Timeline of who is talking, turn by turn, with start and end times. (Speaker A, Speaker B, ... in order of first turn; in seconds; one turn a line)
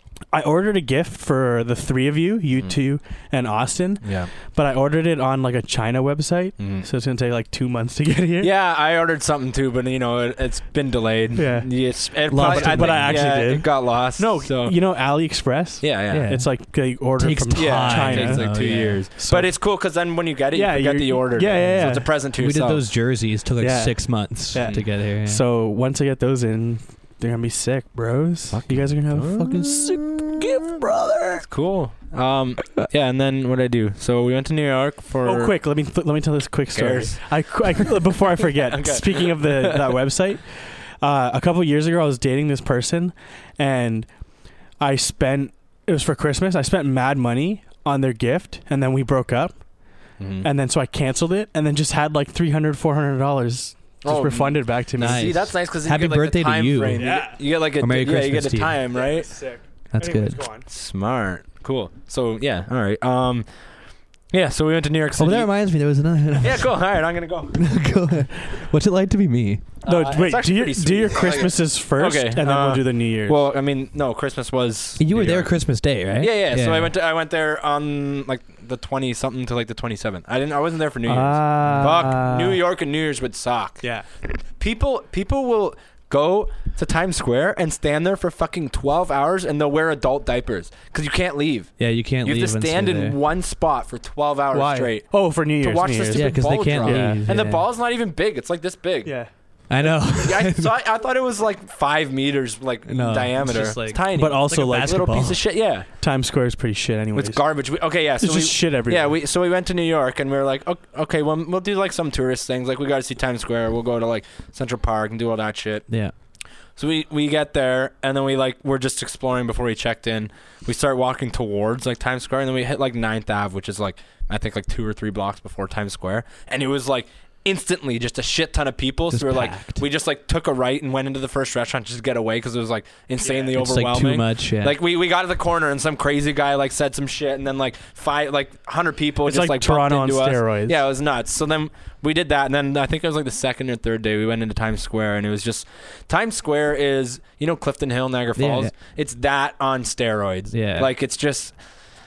Speaker A: 0.3-8.5
Speaker B: 4.0-4.3
Speaker B: 6.6-6.9
Speaker B: 8.4-14.9
Speaker A: 11.4-19.6
Speaker C: 12.3-13.2
Speaker B: 15.8-16.3
Speaker C: 16.1-19.1
Speaker B: 17.5-22.8
Speaker A: 20.5-22.1
Speaker C: 22.4-25.4
Speaker A: 23.6-31.5
Speaker B: 24.6-24.8
Speaker B: 28.5-30.4
Speaker B: 31.4-35.6
Speaker A: 35.2-55.4
Speaker B: 36.7-37.9
Speaker B: 38.7-40.0
Speaker B: 50.2-50.5
Speaker B: 54.0-59.5
Speaker C: 55.0-58.8
Speaker A: 57.0-57.4
Speaker A: 58.9-60.7
Speaker C: 59.9-60.4
Speaker B: 60.7-63.5
Speaker B: 64.2-65.6
Speaker C: 65.2-66.9
Speaker B: 66.4-67.8
Speaker C: 67.5-69.7
Speaker B: 69.8-83.9
Speaker A: 69.8-73.5
Speaker C: 75.0-77.0
Speaker A: 81.1-82.6
Speaker C: 81.7-82.1
Speaker A: 83.8-84.1
Speaker B: 84.6-105.9
Speaker C: 91.8-93.2
Speaker A: 94.5-97.2
Speaker C: 96.1-97.7
Speaker A: 99.0-99.3
Speaker C: 99.7-100.7
Speaker C: 102.9-105.4
Speaker A: 104.2-107.7
Speaker B: 107.1-116.1
Speaker A: 108.2-109.2
Speaker C: 115.9-116.1
Speaker B: 116.8-151.6
Speaker C: 129.1-129.8
Speaker A: 133.2-133.6
Speaker C: 133.5-134.8
Speaker A: 139.2-140.8
Speaker C: 148.4-148.7
Speaker C: 150.5-150.9